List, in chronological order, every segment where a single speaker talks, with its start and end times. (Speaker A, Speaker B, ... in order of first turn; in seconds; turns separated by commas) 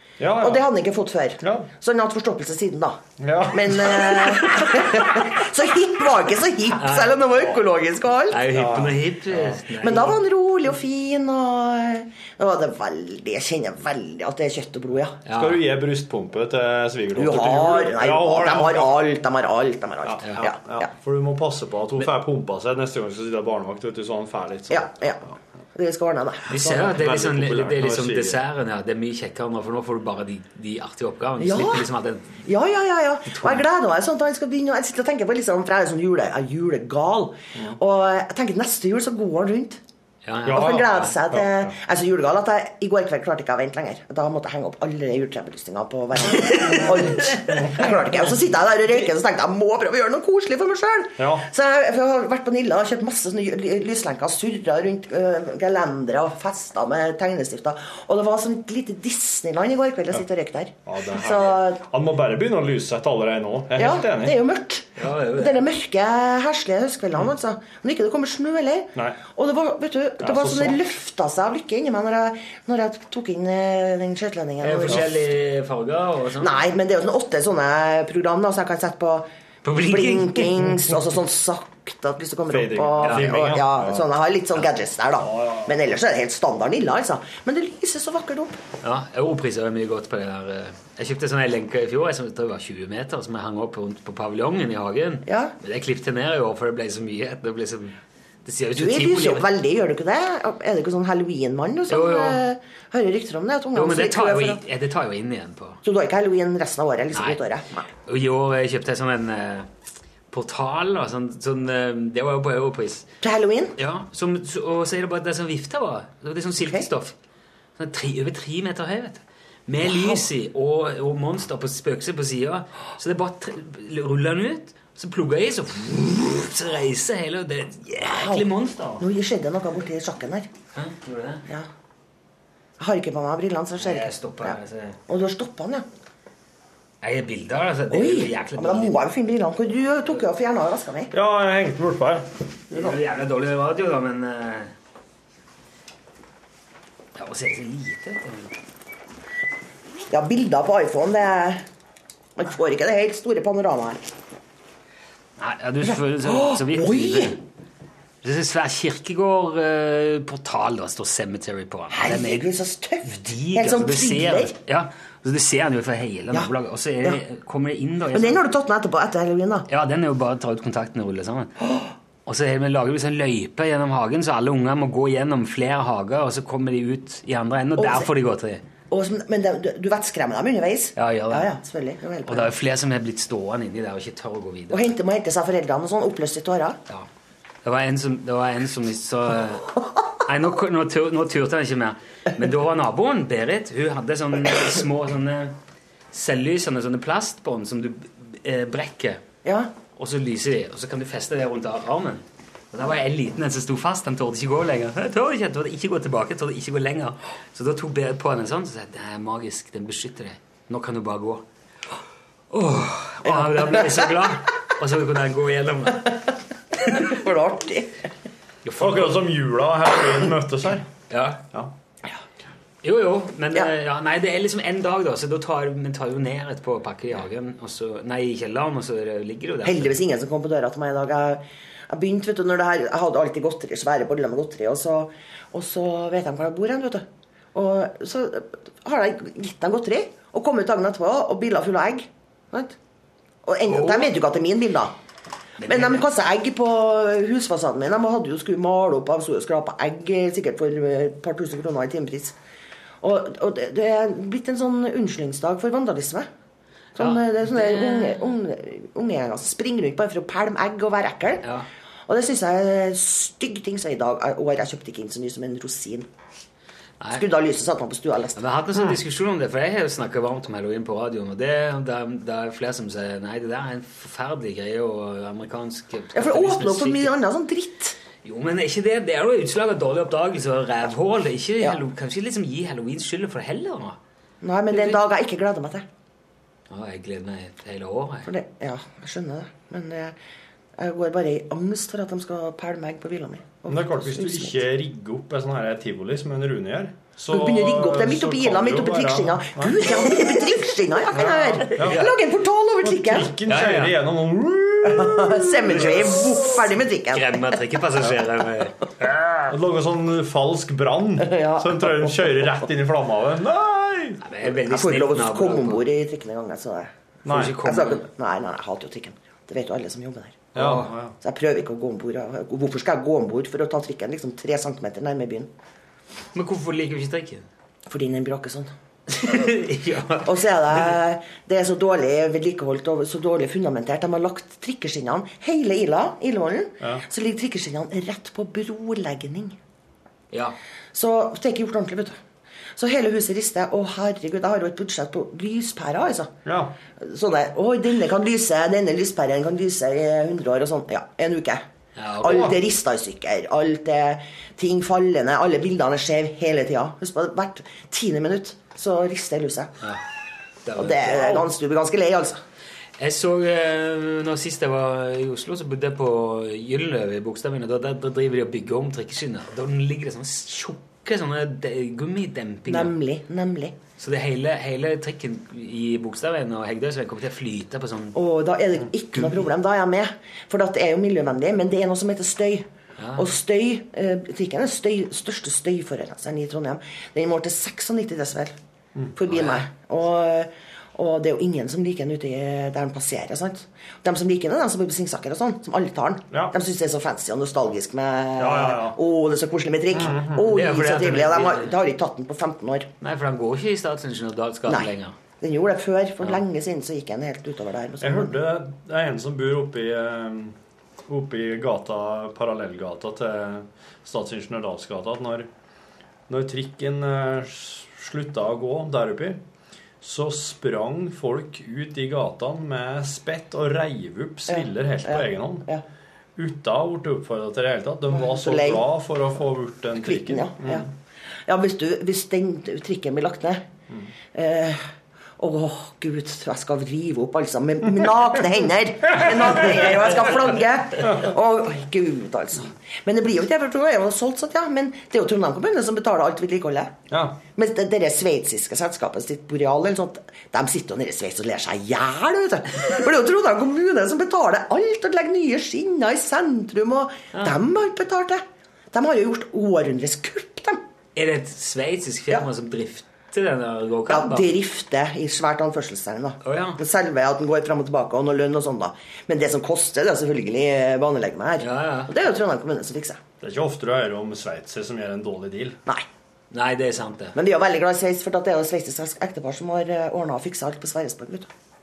Speaker A: 0.2-0.6, Speaker B: 0.4-8.4, Speaker A: 1.4-1.7, Speaker A: 3.2-5.0, Speaker C: 6.8-7.6, Speaker C: 8.3-10.2, Speaker A: 8.5-9.6, Speaker B: 9.8-15.2, Speaker C: 15.2-15.6, Speaker A: 15.3-19.0, Speaker B: 17.2-20.9, Speaker A: 20.0-25.0, Speaker B: 24.7-26.9, Speaker C: 26.5-32.4, Speaker A: 26.7-28.4, Speaker B: 31.4-31.9, Speaker B: 32.5-39.8, Speaker C: 33.3-33.6, Speaker C: 40.2-41.2, Speaker A: 40.5-41.8, Speaker B: 40.5-61.8, Speaker C: 46.4-46.8, Speaker A: 46.4-48.4, Speaker A: 51.2-51.5, Speaker A: 60.9-64.4, Speaker B: 63.8-75.1, Speaker C: 65.0-65.6, Speaker A: 70.2-70.8, Speaker C: 74.6-76.6, Speaker B: 76.4-88.6, Speaker C: 79.6-80.7, Speaker A: 82.5-84.1, Speaker C: 83.0-83.3, Speaker A: 85.2-85.8, Speaker C: 88.8-99.5, Speaker B: 95.3-95.5, Speaker B: 98.8-104.6, Speaker C: 101.9-102.4, Speaker C: 103.8-105.8, Speaker B: 105.8-107.9, Speaker C: 107.1-107.4, Speaker C: 108.0-109.7, Speaker C: 110.3-113.1, Speaker B: 113.2-113.7, Speaker C: 113.8-117.2, Speaker B: 116.6-116.9, Speaker C: 117.8-129.1, Speaker B: 119.8-120.2, Speaker B: 128.0-128.5, Speaker B: 129.0-130.5, Speaker C: 130.8-131.4, Speaker B: 132.8-134.6, Speaker C: 133.8-135.0, Speaker B: 135.1-135.8, Speaker C: 137.0-138.9, Speaker B: 137.9-141.1, Speaker A: 141.1-142.3, Speaker C: 142.7-144.7, Speaker C: 147.2-148.5, Speaker B: 150.1-151.6, Speaker B: 152.4-154.1, Speaker C: 155.4-157.4, Speaker B: 155.8-157.4, Speaker C: 158.2-162.5, Speaker B: 161.9-164.6, Speaker C: 163.1-168.4, Speaker B: 166.3-167.2, Speaker B: 168.1-169.7, Speaker C: 169.7-171.5, Speaker B: 171.6-171.9, Speaker C: 172.3-178.6, Speaker B: 177.8-178.1, Speaker B: 178.9-182.5, Speaker C: 181.0-181.5, Speaker C: 182.3-184.9, Speaker B: 184.7-186.8, Speaker C: 187.6-195.6, Speaker C: 196.1-199.2, Speaker B: 199.4-199.7, Speaker C: 199.9-211.4, Speaker C: 212.5-216.2, Speaker B: 213.3-214.3, Speaker B: 216.8-218.1, Speaker C: 218.6-219.2, Speaker A: 218.8-220.9, Speaker C: 221.1-221.4, Speaker C: 222.8-230.0, Speaker B: 229.6-242.8, Speaker B: 243.4-244.9, Speaker C: 243.7-244.1, Speaker C: 245.6-246.1, Speaker B: 245.6-252.4, Speaker B: 253.0-256.3, Speaker B: 257.0-261.5, Speaker C: 257.0-258.2, Speaker C: 261.4-261.7, Speaker B: 262.1-266.1, Speaker B: 267.1-268.4, Speaker C: 268.4-277.1, Speaker B: 276.1-277.9, Speaker C: 278.2-284.0, Speaker B: 284.4-285.9, Speaker C: 284.7-285.0, Speaker C: 286.7-288.3, Speaker B: 288.3-290.2, Speaker B: 290.8-294.6, Speaker A: 293.7-300.1, Speaker B: 297.3-303.4, Speaker A: 301.1-302.1, Speaker C: 301.8-302.1, Speaker A: 302.8-306.3, Speaker C: 303.5-304.0, Speaker B: 304.9-307.5, Speaker C: 305.7-306.2, Speaker C: 307.1-309.5, Speaker A: 309.5-314.2, Speaker B: 311.2-312.5, Speaker C: 314.2-315.8, Speaker B: 314.6-316.9, Speaker A: 317.2-317.6, Speaker C: 317.3-318.1, Speaker B: 317.6-320.6, Speaker A: 320.6-321.1, Speaker C: 320.6-320.9, Speaker B: 321.2-325.5, Speaker C: 326.4-327.5, Speaker B: 327.9-328.7, Speaker C: 329.1-330.9, Speaker B: 330.2-339.6, Speaker B: 340.9-342.2, Speaker B: 342.8-346.4, Speaker A: 346.4-346.8, Speaker B: 347.0-351.6, Speaker C: 352.0-352.5, Speaker B: 352.2-359.7, Speaker A: 352.2-352.6, Speaker C: 360.6-361.5, Speaker B: 360.8-362.4, Speaker C: 363.0-372.9, Speaker B: 372.7-373.8, Speaker C: 374.0-378.2, Speaker B: 378.1-388.5, Speaker C: 383.0-383.3, Speaker B: 389.2-402.9, Speaker C: 389.3-389.6, Speaker A: 398.4-399.0, Speaker A: 399.9-400.5, Speaker C: 400.4-401.7, Speaker C: 403.0-405.2, Speaker B: 404.7-408.4, Speaker A: 408.0-415.5, Speaker A: 416.3-419.4, Speaker A: 420.0-425.7, Speaker B: 424.5-425.8, Speaker A: 426.4-430.9, Speaker B: 428.1-428.9, Speaker B: 429.9-430.9, Speaker B: 431.5-433.6, Speaker B: 434.3-434.8, Speaker B: 435.4-460.8, Speaker A: 441.0-441.3, Speaker A: 447.1-447.4, Speaker C: 461.2-464.5, Speaker B: 464.1-473.2, Speaker C: 466.4-466.8, Speaker C: 471.6-472.1, Speaker A: 473.4-475.8, Speaker C: 476.5-477.4, Speaker B: 477.4-481.5